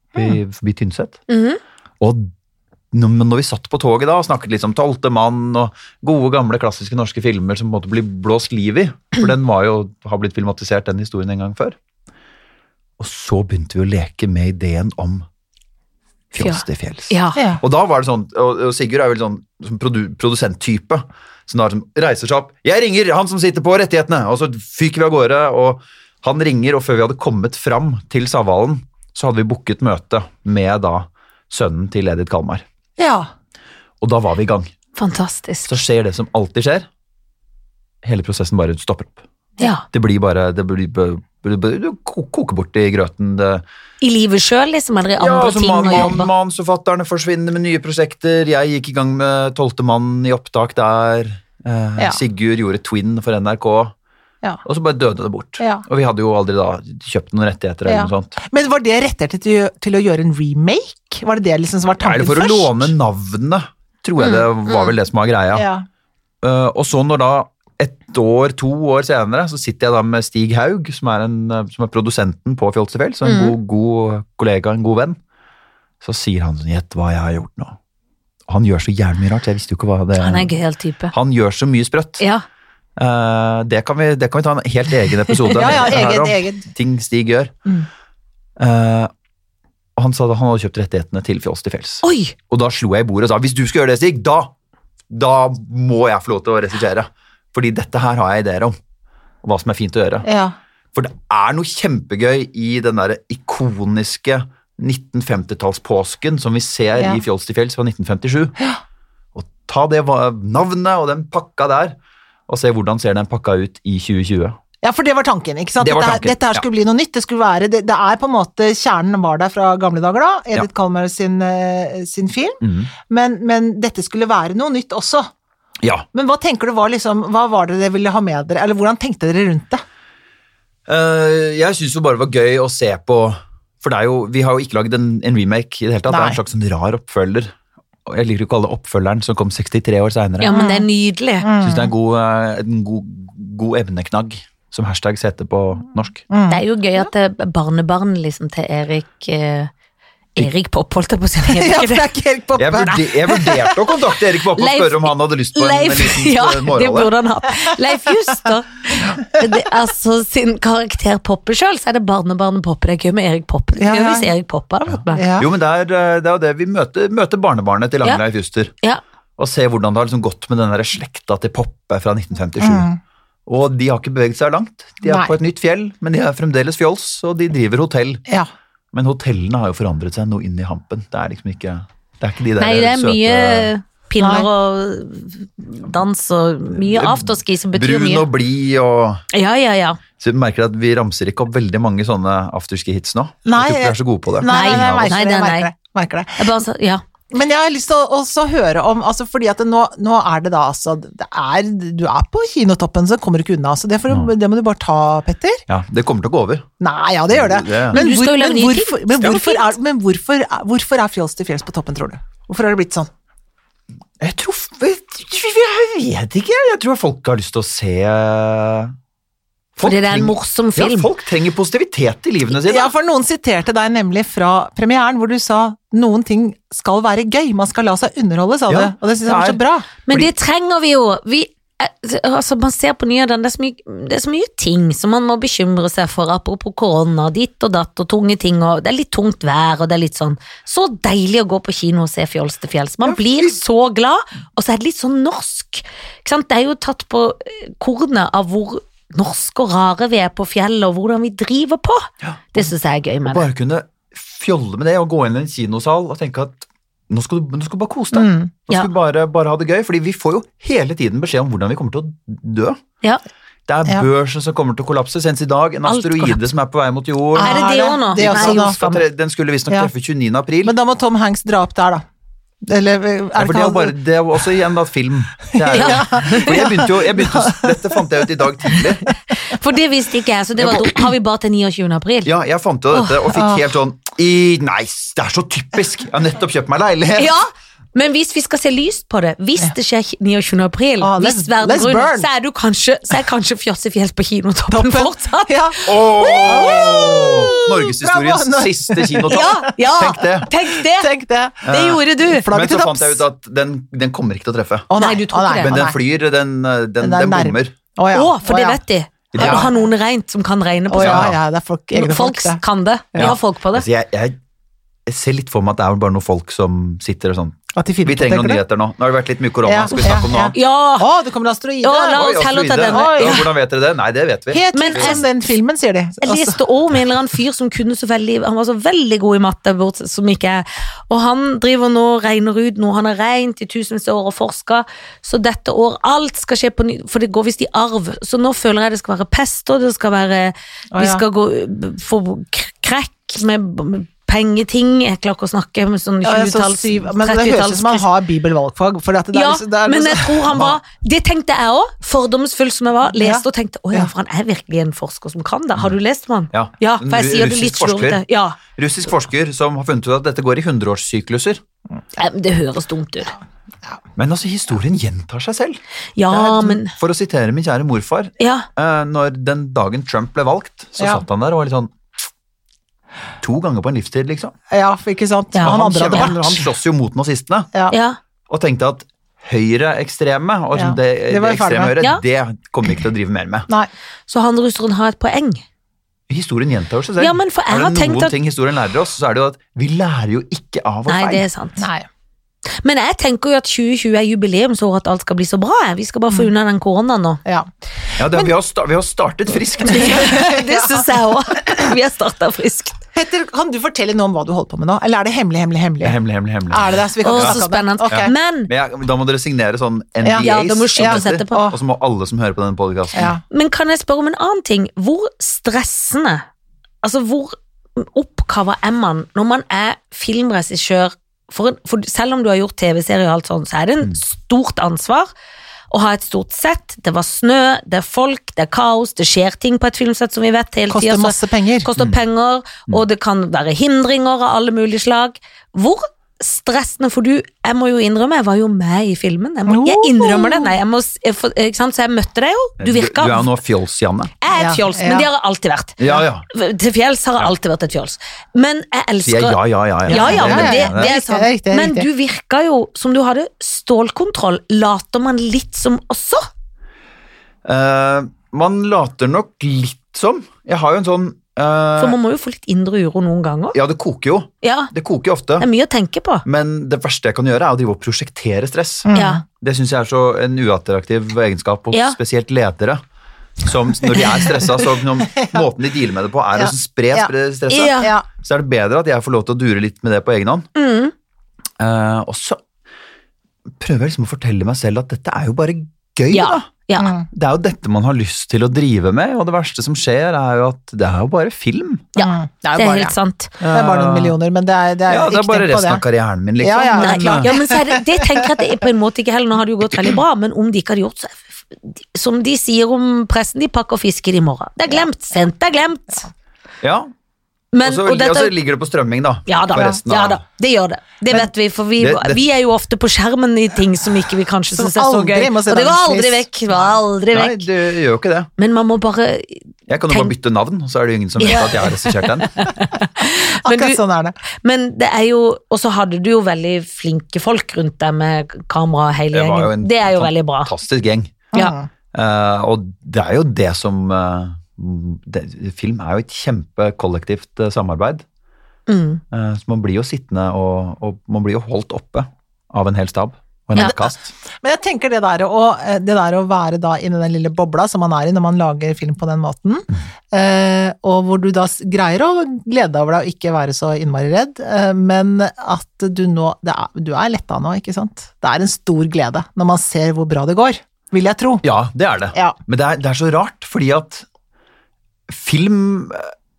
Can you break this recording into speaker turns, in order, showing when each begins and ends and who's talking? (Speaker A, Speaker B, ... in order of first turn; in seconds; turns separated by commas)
Speaker A: 0.2-1.2, Speaker B: 1.3-1.6, Speaker A: 2.0-2.3, Speaker A: 2.9-11.8, Speaker A: 13.0-15.3, Speaker A: 16.3-32.6, Speaker B: 16.4-17.4, Speaker C: 17.4-17.6, Speaker C: 33.0-33.3, Speaker A: 34.0-34.7, Speaker B: 35.0-35.8, Speaker A: 35.7-36.9, Speaker A: 38.0-43.6, Speaker B: 39.6-39.8, Speaker B: 44.0-46.3, Speaker A: 45.2-53.9, Speaker A: 54.6-58.4, Speaker C: 55.6-55.9, Speaker C: 57.9-62.9, Speaker A: 62.0-65.7, Speaker B: 64.2-64.9, Speaker C: 65.5-65.8, Speaker A: 66.4-75.2, Speaker B: 73.2-73.5, Speaker A: 76.0-77.8, Speaker A: 78.5-80.5, Speaker B: 80.2-81.2, Speaker A: 81.1-82.2, Speaker B: 82.2-82.4, Speaker A: 83.0-87.5, Speaker B: 85.3-85.6, Speaker C: 85.5-86.7, Speaker A: 88.6-89.1, Speaker A: 90.0-94.5, Speaker B: 92.0-92.3, Speaker A: 95.1-98.8, Speaker A: 99.4-100.3, Speaker C: 100.2-100.5, Speaker A: 100.9-108.5, Speaker A: 109.3-112.0, Speaker A: 112.5-114.6, Speaker C: 114.8-125.3, Speaker A: 115.8-116.7, Speaker A: 122.6-122.9, Speaker A: 125.8-126.1, Speaker C: 126.1-129.8, Speaker A: 130.9-137.5, Speaker C: 136.1-136.4, Speaker A: 138.1-140.6, Speaker B: 140.4-141.5, Speaker C: 140.5-140.9, Speaker C: 141.4-141.9, Speaker A: 141.6-146.2, Speaker C: 146.3-147.1, Speaker B: 146.5-149.7, Speaker B: 150.3-152.1, Speaker C: 151.4-153.6, Speaker A: 152.6-157.1, Speaker B: 154.6-165.2, Speaker C: 163.8-164.3, Speaker A: 164.9-168.7, Speaker C: 165.1-165.5, Speaker A: 169.4-172.9, Speaker C: 172.6-173.0, Speaker A: 173.5-178.2, Speaker C: 175.0-175.3, Speaker A: 178.9-183.7, Speaker B: 182.6-188.3, Speaker C: 184.2-184.5, Speaker A: 186.7-189.2, Speaker B: 189.3-190.0, Speaker A: 190.2-195.2, Speaker C: 193.5-196.5, Speaker B: 194.5-195.7, Speaker B: 196.4-197.0, Speaker C: 197.3-205.6, Speaker A: 205.7-206.7, Speaker C: 206.8-213.1, Speaker A: 207.3-208.0, Speaker B: 207.9-209.7, Speaker A: 214.2-218.9, Speaker A: 219.8-222.9, Speaker B: 219.8-221.1, Speaker C: 222.6-229.9, Speaker A: 228.7-230.3, Speaker B: 230.1-253.4, Speaker A: 243.1-243.6, Speaker A: 252.2-252.7, Speaker A: 253.3-262.8, Speaker C: 258.1-258.5, Speaker A: 263.7-267.6, Speaker B: 265.9-266.5, Speaker C: 267.4-268.8, Speaker B: 267.4-269.0, Speaker A: 268.1-270.8, Speaker C: 270.6-272.0, Speaker C: 272.6-273.9, Speaker A: 273.4-279.1, Speaker C: 275.5-278.1, Speaker B: 275.7-276.5, Speaker C: 278.6-279.1, Speaker B: 279.5-282.3, Speaker A: 280.6-281.0, Speaker A: 282.2-287.3, Speaker C: 283.3-283.6, Speaker B: 287.2-297.4, Speaker C: 291.0-292.3, Speaker C: 294.7-295.8, Speaker A: 295.9-300.5, Speaker C: 296.4-299.9, Speaker B: 299.3-301.1, Speaker C: 300.5-303.2, Speaker A: 301.6-304.9, Speaker B: 301.7-302.5, Speaker C: 304.9-306.0, Speaker B: 305.0-305.7, Speaker A: 305.6-307.7, Speaker C: 307.0-308.8, Speaker B: 308.1-311.3, Speaker A: 309.3-309.7, Speaker C: 309.4-309.8, Speaker C: 310.9-312.6, Speaker A: 311.0-311.4, Speaker B: 311.9-313.9, Speaker A: 313.2-314.4, Speaker A: 315.1-320.6, Speaker C: 317.8-318.6, Speaker C: 319.6-323.5, Speaker B: 320.0-321.1, Speaker B: 321.8-323.4, Speaker A: 322.1-325.2, Speaker C: 324.5-326.6, Speaker B: 324.7-325.4, Speaker B: 326.2-348.0, Speaker C: 340.9-341.2, Speaker C: 346.2-350.5, Speaker B: 349.3-358.6, Speaker A: 350.5-350.8, Speaker C: 353.1-354.1, Speaker A: 356.5-358.2, Speaker A: 358.8-361.6, Speaker B: 362.2-363.4, Speaker A: 364.2-371.9, Speaker B: 366.2-366.9, Speaker B: 368.4-368.7, Speaker C: 371.0-371.2, Speaker A: 373.4-374.6, Speaker C: 374.7-376.7, Speaker B: 375.5-376.3, Speaker A: 375.6-377.7, Speaker B: 377.9-378.2, Speaker A: 378.5-383.7, Speaker C: 380.7-382.0, Speaker B: 384.3-385.6, Speaker A: 386.3-391.4, Speaker B: 387.2-388.4, Speaker B: 391.1-391.9, Speaker C: 391.8-392.1, Speaker B: 392.8-397.4, Speaker A: 398.2-400.4, Speaker B: 399.9-403.0, Speaker C: 399.9-401.1, Speaker C: 403.1-408.3, Speaker A: 406.0-413.3, Speaker B: 407.2-408.7, Speaker C: 410.2-411.8, Speaker B: 410.3-411.7, Speaker C: 413.1-413.4, Speaker B: 413.5-416.5, Speaker B: 417.0-425.3, Speaker B: 425.9-443.5, Speaker C: 430.9-431.9, Speaker C: 439.7-440.8, Speaker A: 442.8-444.3, Speaker B: 444.4-456.5, Speaker C: 444.6-445.3, Speaker A: 446.0-446.4, Speaker A: 449.2-451.1, Speaker C: 450.1-452.1, Speaker A: 457.6-462.2, Speaker B: 462.0-463.8, Speaker A: 463.7-465.7, Speaker B: 464.6-464.9, Speaker B: 465.6-466.4, Speaker A: 466.4-473.0, Speaker C: 469.1-469.4, Speaker B: 469.1-469.4, Speaker B: 471.9-472.2, Speaker A: 473.6-480.7, Speaker C: 474.4-474.7, Speaker C: 475.2-475.6, Speaker C: 476.6-477.3, Speaker B: 477.7-478.1, Speaker C: 478.0-478.2, Speaker B: 480.8-481.1, Speaker A: 481.8-482.6, Speaker A: 483.7-486.7, Speaker B: 486.3-487.1, Speaker C: 487.0-487.3, Speaker A: 487.3-492.1, Speaker B: 492.2-493.6, Speaker C: 492.2-496.0, Speaker A: 493.7-494.4, Speaker A: 495.1-497.5, Speaker C: 496.6-498.7, Speaker B: 497.0-506.3, Speaker A: 506.8-507.1, Speaker B: 507.7-508.5, Speaker A: 507.8-510.4, Speaker B: 509.5-517.7, Speaker A: 512.0-512.4, Speaker C: 514.7-516.5, Speaker A: 517.3-518.5, Speaker B: 518.6-520.3, Speaker A: 519.9-522.5, Speaker B: 521.4-524.0, Speaker C: 521.5-521.9, Speaker C: 523.6-524.4, Speaker B: 524.6-530.7, Speaker A: 529.3-531.4, Speaker C: 531.5-531.9, Speaker A: 532.1-538.2, Speaker B: 538.9-539.2, Speaker A: 539.3-544.3, Speaker C: 543.8-561.6, Speaker A: 561.6-564.3, Speaker A: 565.3-566.3